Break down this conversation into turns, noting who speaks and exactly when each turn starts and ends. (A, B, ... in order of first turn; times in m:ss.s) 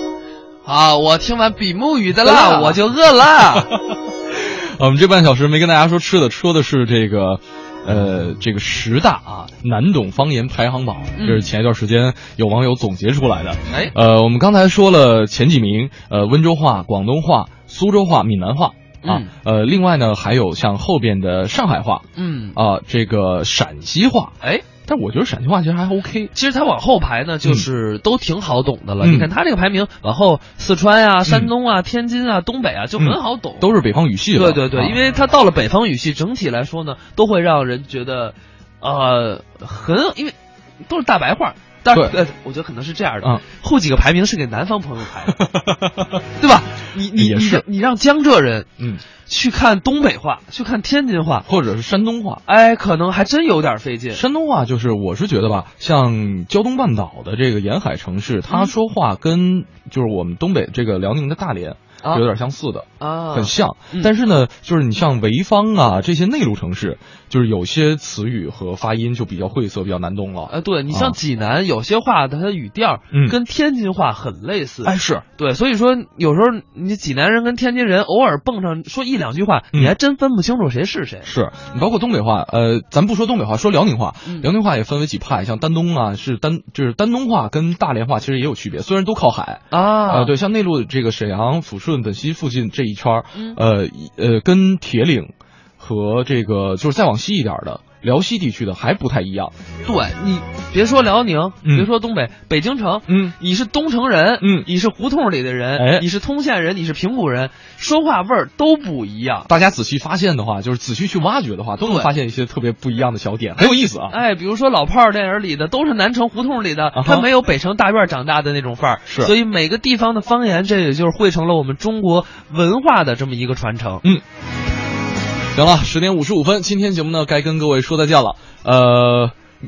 0:00.6-0:03.7 A
0:02.2-0:02.8 B
0:03.5-0:26.3 B
0:11.2-0:11.5 A
0:19.0-0:19.3 A
0:22.2-0:22.6 A
0:26.3-0:33.8 A
0:29.0-0:29.3 B
0:31.3-0:31.5 B
0:33.0-0:35.0 B
0:34.4-0:45.5 A
0:41.9-0:42.2 B
0:45.5-0:46.2 B
0:46.4-0:48.7 A
0:47.2-0:47.6 B
0:49.3-0:51.5 A
0:51.5-0:52.4 B
0:52.5-0:54.2 A
0:54.1-1:11.2 B
0:58.5-0:58.7 A
1:03.0-1:04.1 A
1:10.5-1:21.3 A
1:14.8-1:15.2 B
1:21.3-1:39.5 B
1:29.7-1:30.3 A
1:33.3-1:33.6 A
1:39.9-1:49.5 A
1:43.1-1:43.4 B
1:44.4-1:44.7 B
1:45.8-1:46.0 B
1:49.5-1:54.2 B
1:51.8-1:52.1 A
1:53.6-2:04.0 A
1:57.0-1:57.3 B
1:59.1-1:59.3 B
2:05.5-2:09.4 B